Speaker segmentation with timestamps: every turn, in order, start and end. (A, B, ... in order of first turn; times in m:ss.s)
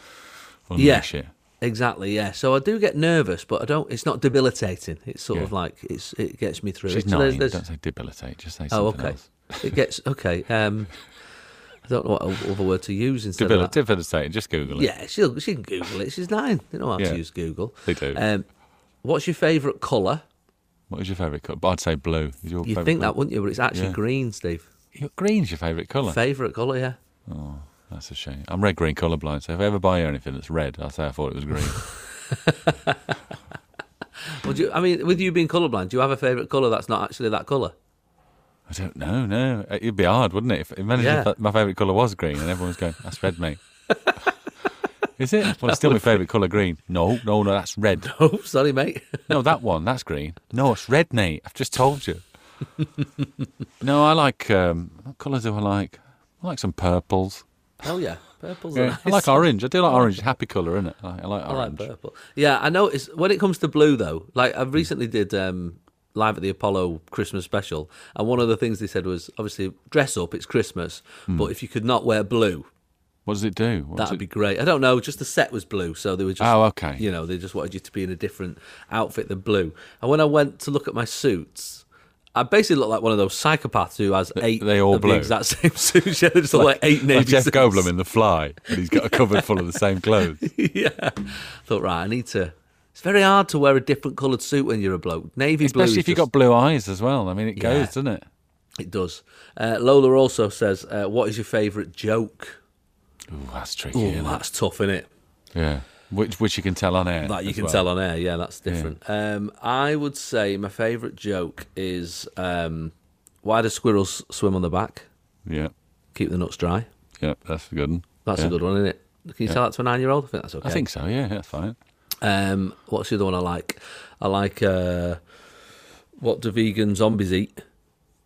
0:00.7-0:01.3 A
0:00.8-0:01.1 B
0:01.6-0:07.6 B
0:06.9-0:09.8 A
0:08.7-0:10.9 B
0:11.8-0:13.8 B
0:13.4-0:14.9 A
0:14.7-0:18.5 B
0:17.8-0:18.2 A
0:19.0-0:20.2 B
0:20.9-0:23.2 A
0:22.6-0:24.7 B
0:23.7-0:24.0 A
0:24.9-0:26.2 A
0:26.0-0:27.0 B
0:27.3-0:31.8 A
0:32.3-0:33.0 B
0:34.3-0:37.8 B
0:38.7-0:43.6 A
0:41.0-0:41.3 B
0:45.2-0:48.1 A
0:45.4-0:46.2 B
0:48.0-0:49.3 B
0:49.3-0:52.2 A
0:53.8-0:57.4 A
0:57.8-1:00.1 B
0:58.8-1:01.9 A
1:01.5-1:12.7 B
1:13.3-1:14.2 A
1:14.0-1:27.9 B
1:16.4-1:17.0 A
1:24.4-1:25.3 A
1:26.5-1:30.5 A
1:28.9-1:29.5 B
1:30.4-1:36.3 B
1:35.6-1:38.3 A
1:37.6-1:37.9 B
1:38.8-1:42.6 B
1:43.3-1:44.4 A
1:43.9-1:45.1 B
1:45.5-1:47.9 A
1:47.2-1:55.1 B
1:48.7-1:49.0 A
1:55.5-1:55.7 A
1:56.2-1:56.9 B
1:57.2-1:58.6 A
1:58.2-2:00.8 B
2:00.6-2:01.8 A
2:02.2-2:05.2 B
2:06.2-2:07.6 B